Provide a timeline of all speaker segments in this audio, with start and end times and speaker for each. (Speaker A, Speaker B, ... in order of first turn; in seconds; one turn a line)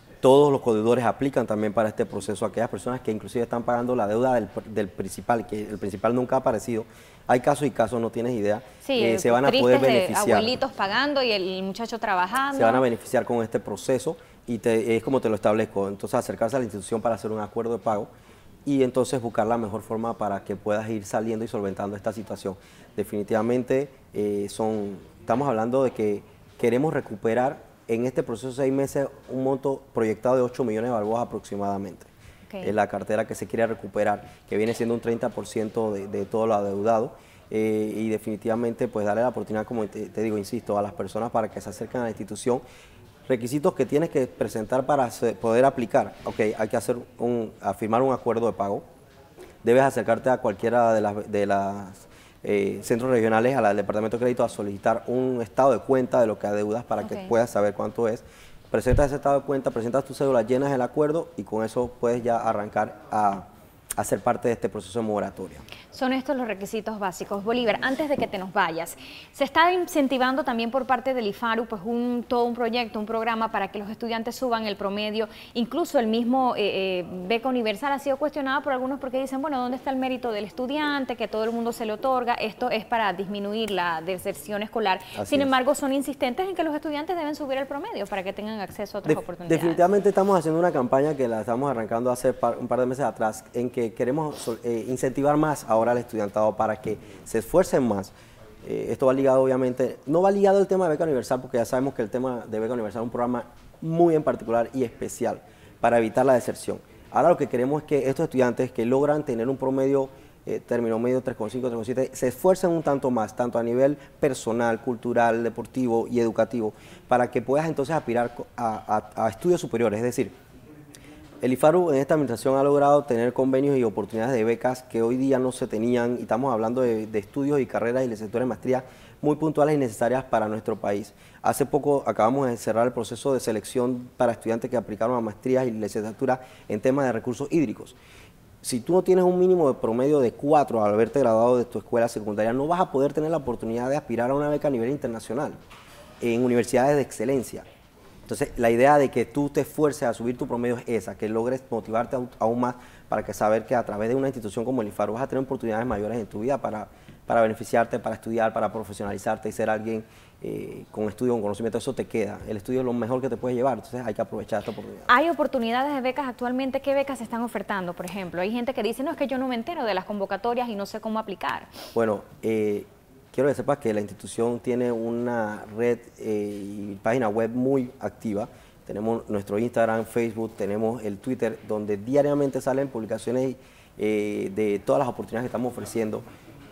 Speaker A: 0.2-10.5
Speaker B: 8.8-12.8
Speaker A: 12.6-18.1
Speaker A: 18.7-32.1
Speaker B: 32.5-32.7
Speaker A: 32.6-42.6
Speaker A: 43.3-48.8
Speaker A: 49.6-63.4
Speaker B: 57.0-57.3
Speaker A: 64.0-65.7
Speaker B: 65.9-89.8
Speaker A: 85.2-85.5
Speaker A: 89.1-98.1
Speaker A: 98.6-120.3
Speaker A: 121.4-138.0
Speaker A: 138.6-145.6
Speaker A: 146.2-147.7
Speaker A: 148.3-165.1
Speaker B: 165.1-171.7
Speaker A: 171.9-186.2